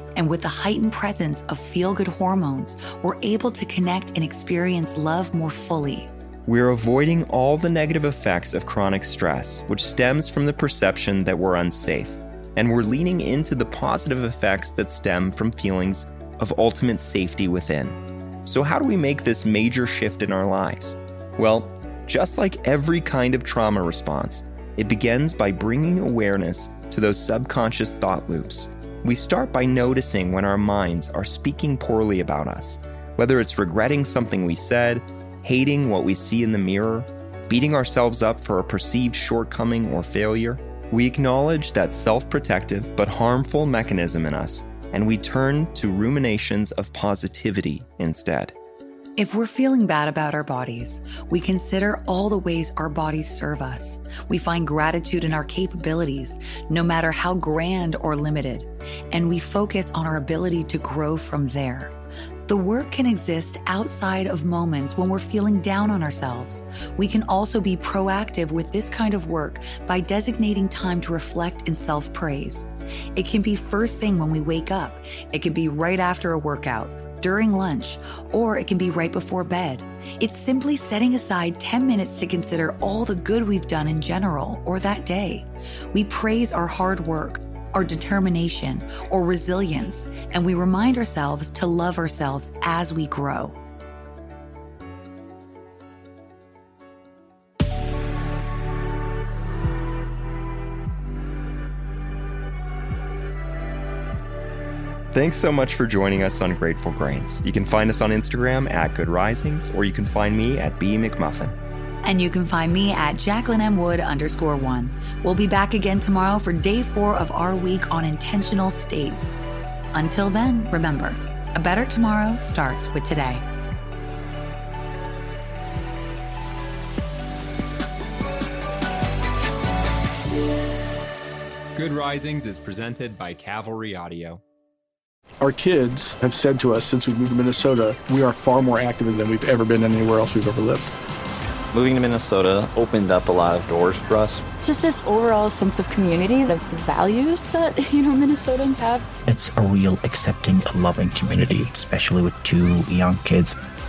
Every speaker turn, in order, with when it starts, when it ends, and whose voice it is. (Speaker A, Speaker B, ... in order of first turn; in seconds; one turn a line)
Speaker A: 0.2-6.1
Speaker B: 6.5-48.5
Speaker A: 49.2-61.9
Speaker A: 62.5-93.6
Speaker B: 105.1-111.5
Speaker A: 112.0-119.4
Speaker A: 120.0-123.4
Speaker B: 131.8-134.4
Speaker C: 135.4-140.9
Speaker D: 141.7-144.4
Speaker E: 144.6-149.1
Speaker F: 149.3-153.6